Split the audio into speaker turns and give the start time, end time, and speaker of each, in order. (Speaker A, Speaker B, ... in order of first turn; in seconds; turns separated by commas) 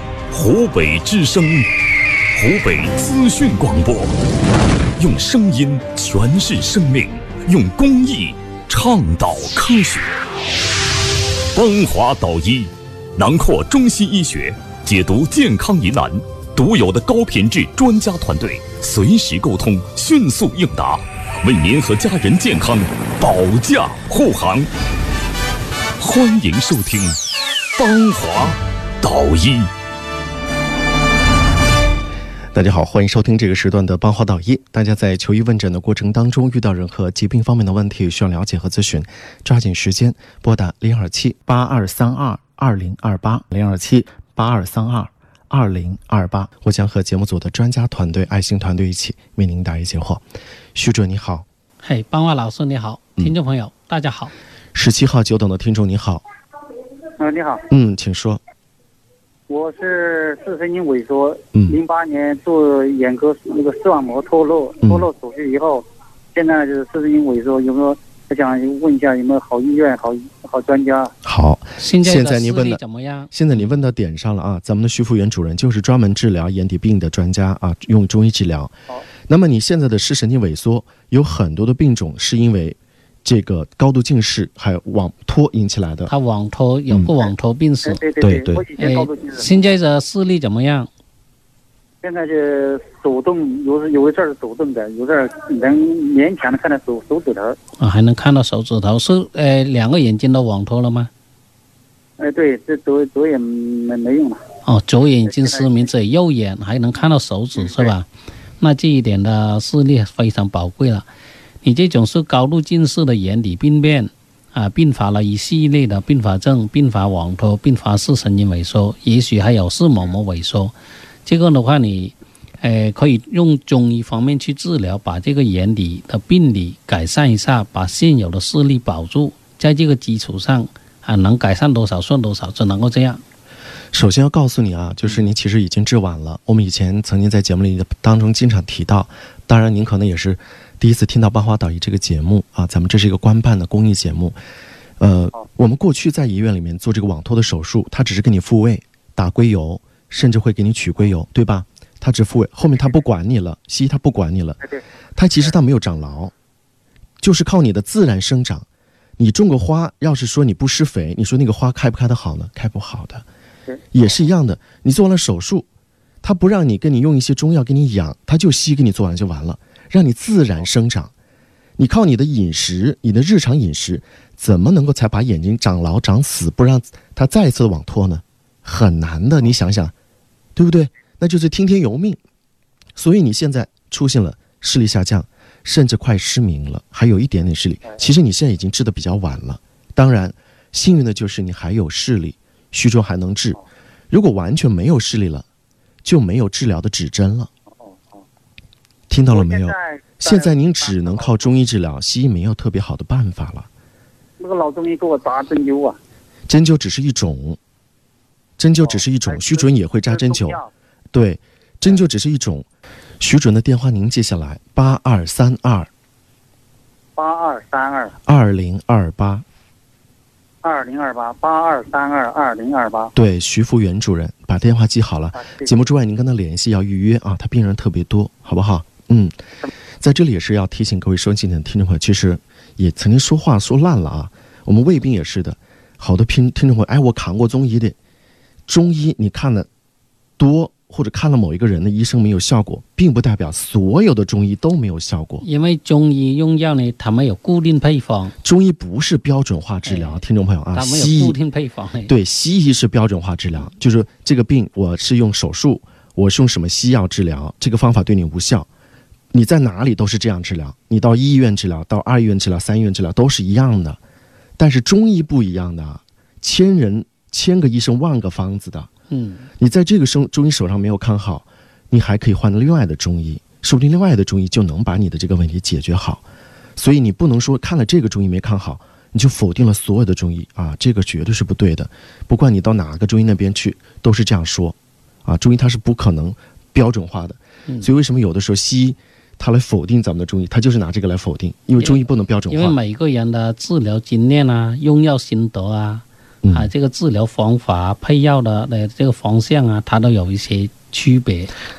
Speaker A: 0.3-1.7, Speaker A: 2.3-4.1, Speaker A: 5.0-10.2, Speaker A: 11.5-24.7, Speaker A: 26.0-27.1, Speaker A: 27.7-29.7, Speaker B: 32.5-50.2, Speaker B: 50.7-51.5, Speaker C: 51.8-54.3, Speaker B: 54.7-56.2, Speaker D: 57.2-57.6, Speaker B: 57.7-58.4, Speaker D: 59.5-71.1, Speaker B: 61.5-61.8, Speaker B: 71.2-78.7, Speaker C: 71.8-73.3, Speaker B: 79.3-86.1, Speaker C: 86.1-88.0, Speaker D: 87.8-89.5, Speaker B: 88.2-88.7, Speaker C: 88.8-90.9, Speaker D: 92.0-97.6, Speaker C: 97.8-101.1, Speaker D: 102.2-104.4, Speaker C: 104.6-108.1, Speaker D: 105.3-105.9, Speaker D: 107.6-107.9, Speaker C: 108.6-111.1, Speaker C: 111.6-133.2, Speaker B: 133.9-144.4, Speaker B: 145.0-154.6, Speaker B: 155.2-156.3, Speaker B: 157.2-158.7, Speaker B: 159.2-163.2, Speaker D: 163.7-164.1, Speaker B: 163.9-165.7, Speaker B: 166.2-171.1, Speaker B: 171.8-179.9, Speaker B: 180.6-182.2, Speaker B: 182.9-193.6, Speaker B: 194.1-195.4, Speaker B: 196.0-197.5, Speaker D: 197.8-198.2, Speaker B: 199.1-203.7, Speaker D: 199.3-201.3, Speaker D: 204.4-206.0, Speaker B: 206.5-207.6, Speaker B: 208.6-210.6, Speaker D: 208.8-210.7, Speaker B: 211.1-212.7, Speaker B: 213.2-215.9, Speaker D: 217.2-218.1, Speaker B: 218.2-219.4, Speaker D: 220.6-223.1, Speaker B: 223.1-229.3, Speaker D: 225.3-225.8, Speaker B: 230.0-238.0, Speaker B: 238.7-239.7, Speaker B: 240.4-245.4, Speaker C: 245.4-248.3, Speaker B: 248.4-251.4, Speaker C: 249.8-250.2, Speaker C: 250.7-252.1, Speaker B: 252.1-258.7, Speaker B: 259.3-264.0, Speaker B: 264.6-268.9, Speaker C: 269.1-269.5, Speaker B: 269.6-276.2, Speaker B: 276.8-292.8, Speaker C: 291.8-301.5, Speaker B: 296.4-296.7